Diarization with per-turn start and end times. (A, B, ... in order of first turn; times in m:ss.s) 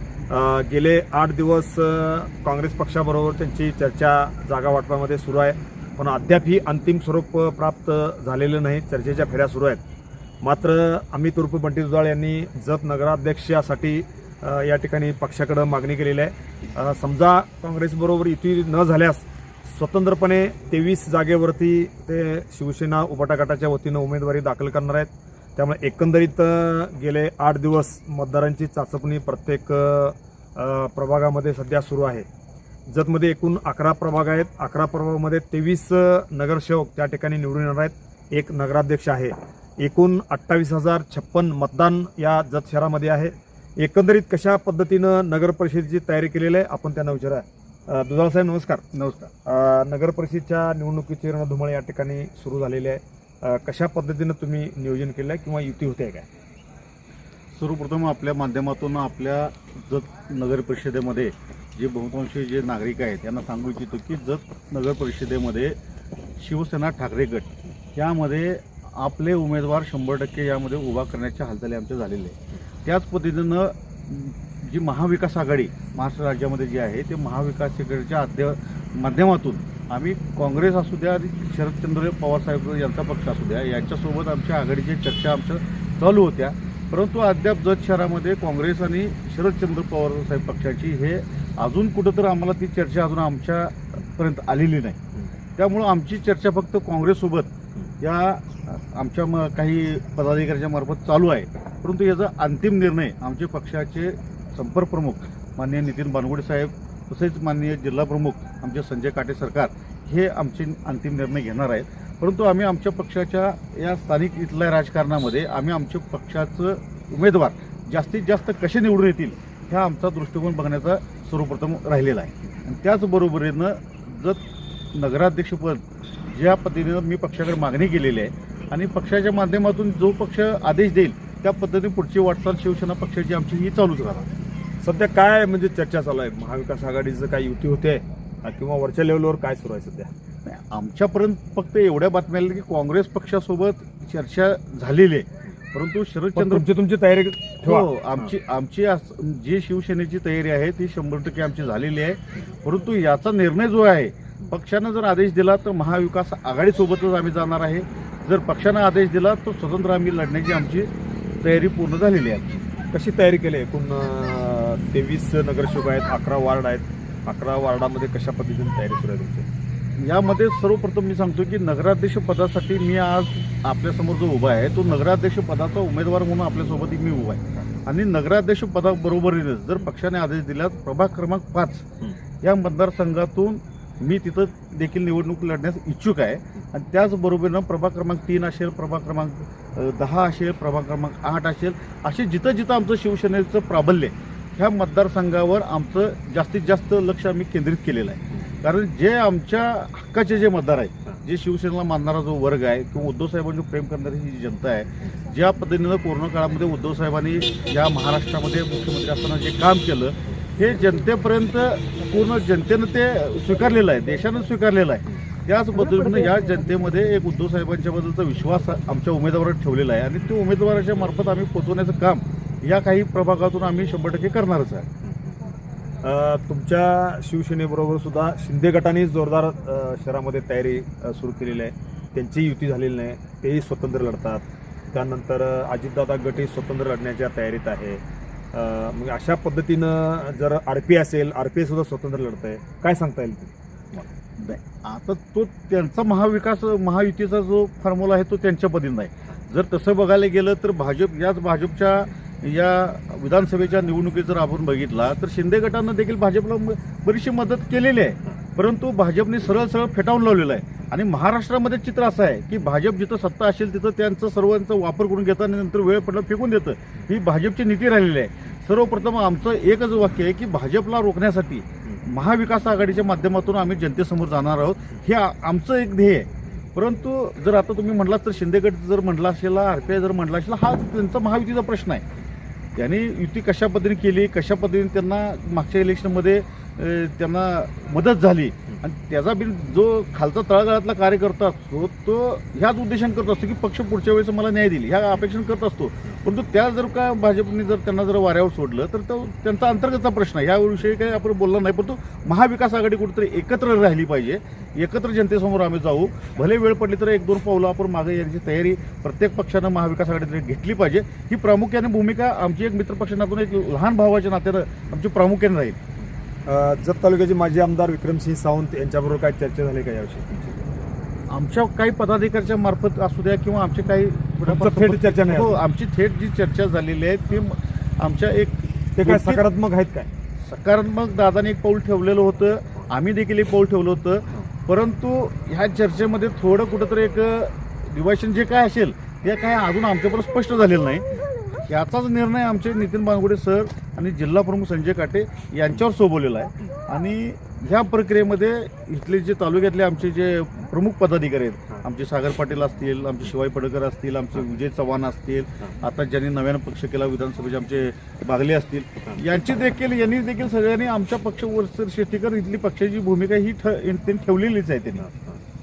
0:00.3-0:09.8 A
0:10.4-0:32.3 A
0:32.9-0:48.8 A
0:48.9-0:49.3 B
0:49.4-0:56.3 A
0:57.6-1:05.8 B
1:06.4-1:35.0 B
1:35.6-2:04.4 B
2:04.9-2:14.3 B
2:14.8-2:20.1 A
2:20.4-2:26.6 B
2:26.3-2:28.3 A
2:27.6-2:40.9 B
2:41.4-2:42.7 B
2:42.9-2:49.5 A
2:50.0-3:01.9 B
3:02.4-3:44.9 B
3:35.9-3:36.2 A
3:45.0-3:45.4 A
3:46.0-3:58.0 A
3:58.5-4:04.1 A
4:04.4-4:42.0 B
4:42.8-5:15.8 B
5:16.4-5:20.6 A
5:21.3-5:29.4 B
5:24.4-5:25.6 A
5:29.0-5:30.1 A
5:30.4-6:05.1 B
6:05.0-6:05.4 A